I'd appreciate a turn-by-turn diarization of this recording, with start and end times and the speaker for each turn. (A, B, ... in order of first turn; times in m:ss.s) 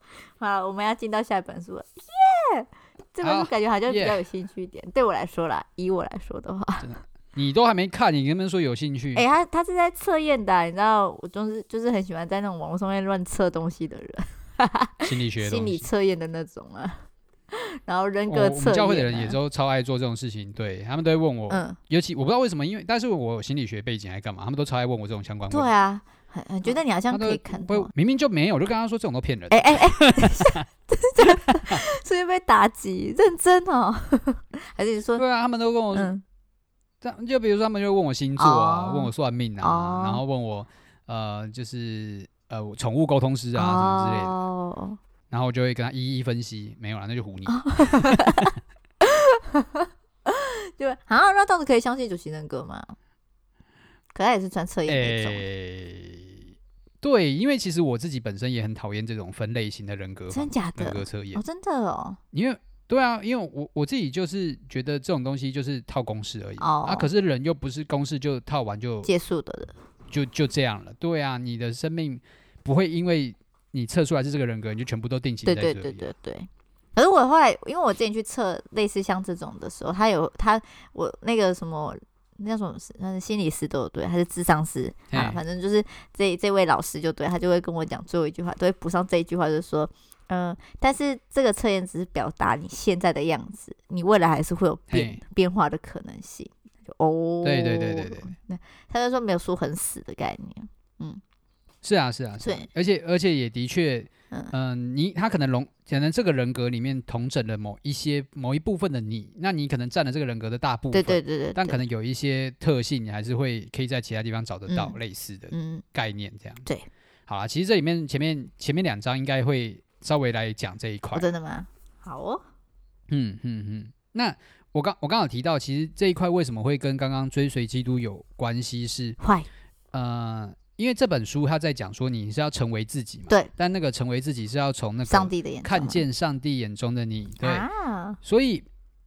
0:00.4-0:06.9 A
0:03.2-0:04.2 B
0:06.8-0:09.2 B
0:09.1-0:19.4 A
0:15.0-0:15.8 B
0:18.3-0:25.7 B
0:21.5-0:21.8 A
0:25.5-0:27.9 A
0:26.6-0:30.6 B
0:29.5-0:35.2 A
0:31.2-0:31.8 B
0:35.2-0:36.1 B
0:35.9-0:36.2 A
0:37.0-0:44.4 B
0:38.4-0:40.2 A
0:43.5-0:45.0 A
0:45.3-0:48.5 B
0:47.5-0:52.9 A
0:54.1-0:55.4 A
0:54.9-0:56.4 B
0:57.0-1:01.4 B
1:00.3-1:02.2 A
1:02.3-1:09.1 B
1:06.6-1:07.1 A
1:09.0-1:09.7 A
1:10.1-1:16.1 B
1:15.4-1:41.2 A
1:25.1-1:25.4 B
1:34.9-1:35.2 B
1:37.4-1:38.3 B
1:41.8-1:56.6 B
1:42.4-1:42.7 A
1:50.9-1:51.8 A
1:54.7-1:55.0 A
1:55.5-1:55.8 A
1:57.3-2:01.3 B
2:01.1-2:02.4 A
2:03.1-2:09.2 B
2:09.2-2:09.5 A
2:09.9-2:17.7 B
2:15.1-2:16.0 A
2:17.4-2:18.2 A
2:18.2-2:18.6 B